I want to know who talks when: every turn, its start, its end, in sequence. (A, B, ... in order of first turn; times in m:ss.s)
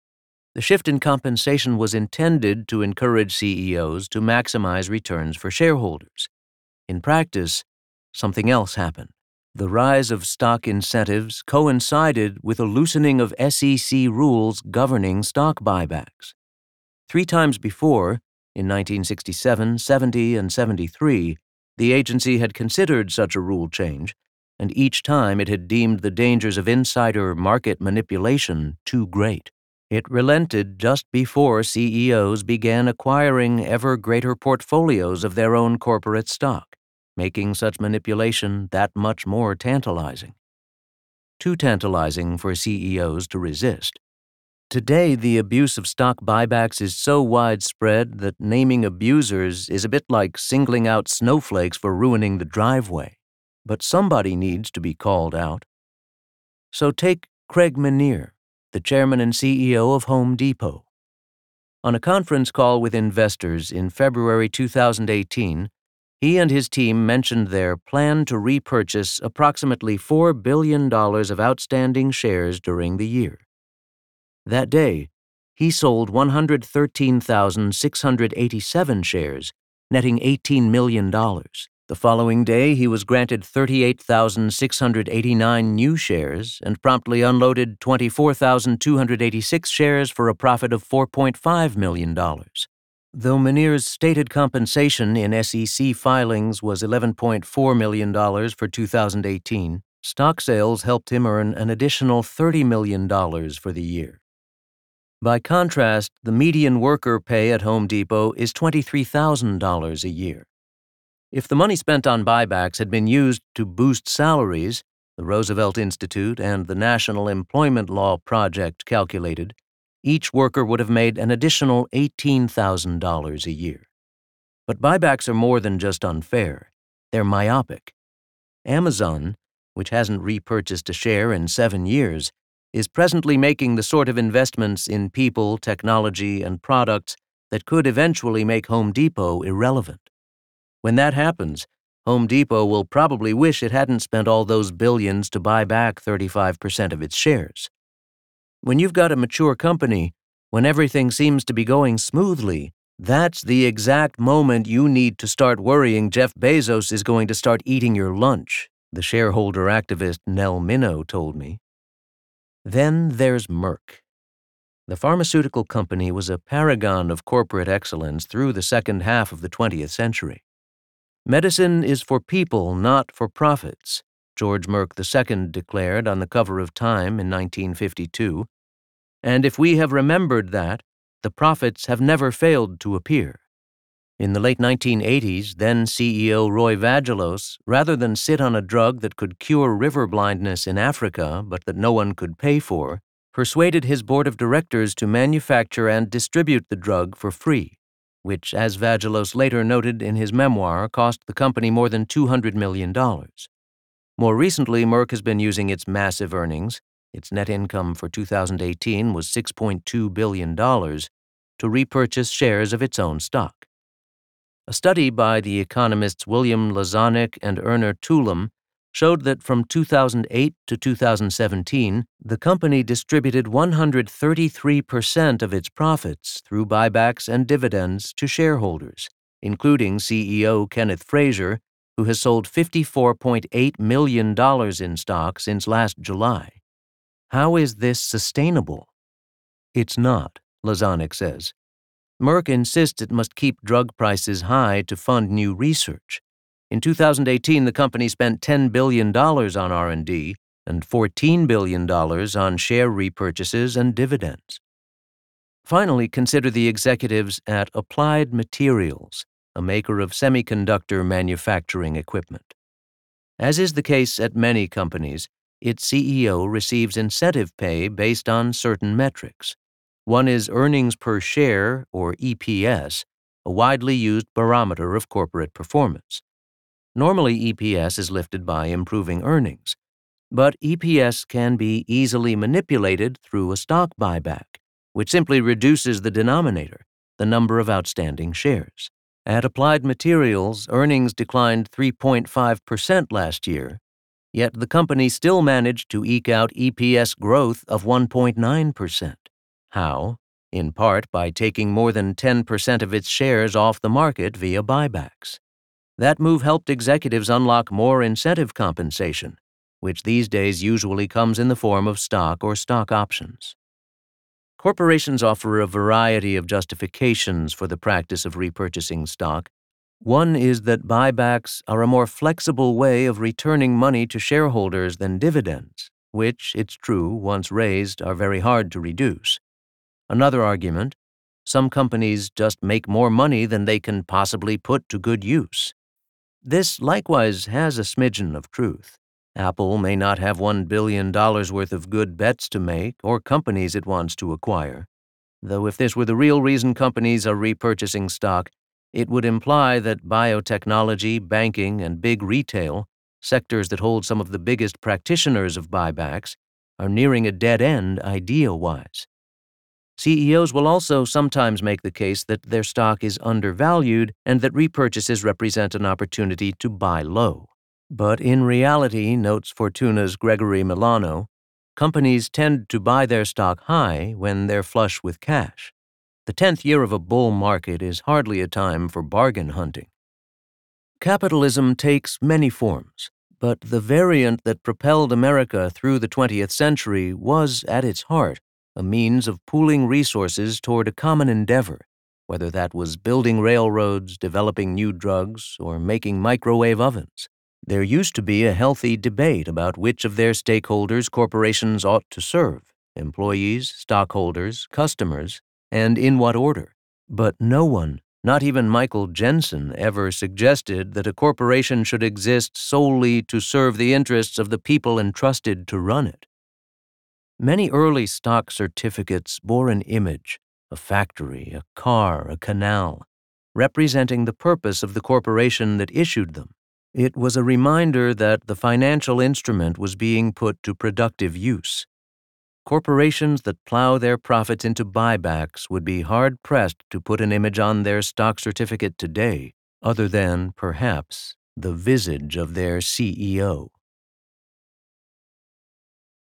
0:00.6-0:06.3 A
0:06.9-0:16.4 A
0:17.1-0:40.4 A
0:41.4-0:44.0 A
0:44.7-0:55.7 A
0:56.7-1:00.9 A
1:01.8-1:13.4 A
1:14.5-1:44.2 A
1:45.2-1:50.5 A
1:51.3-2:03.9 A
2:04.7-2:08.0 A
2:08.6-2:20.1 A
2:20.8-2:27.7 A
2:28.6-2:41.6 A
2:42.6-2:44.0 A
2:44.9-2:50.4 A
2:51.3-2:58.5 A
2:59.2-3:03.4 A
3:04.2-3:23.5 A
3:24.2-3:33.7 A
3:34.7-3:56.6 A
3:57.3-3:58.9 A
3:59.7-4:01.5 A
4:02.2-4:14.6 A
4:15.6-4:22.6 A
4:23.4-4:36.2 A
4:37.0-4:39.8 A
4:40.3-4:53.8 A
4:54.3-5:05.4 A
5:06.0-5:13.6 A
5:14.6-5:29.4 A
5:30.1-5:35.7 A
5:36.4-5:44.9 A
5:45.4-5:59.1 A
6:00.0-6:15.7 A
6:16.3-6:19.9 A
6:21.0-6:56.3 A
6:57.4-7:11.9 A
7:12.6-7:23.7 A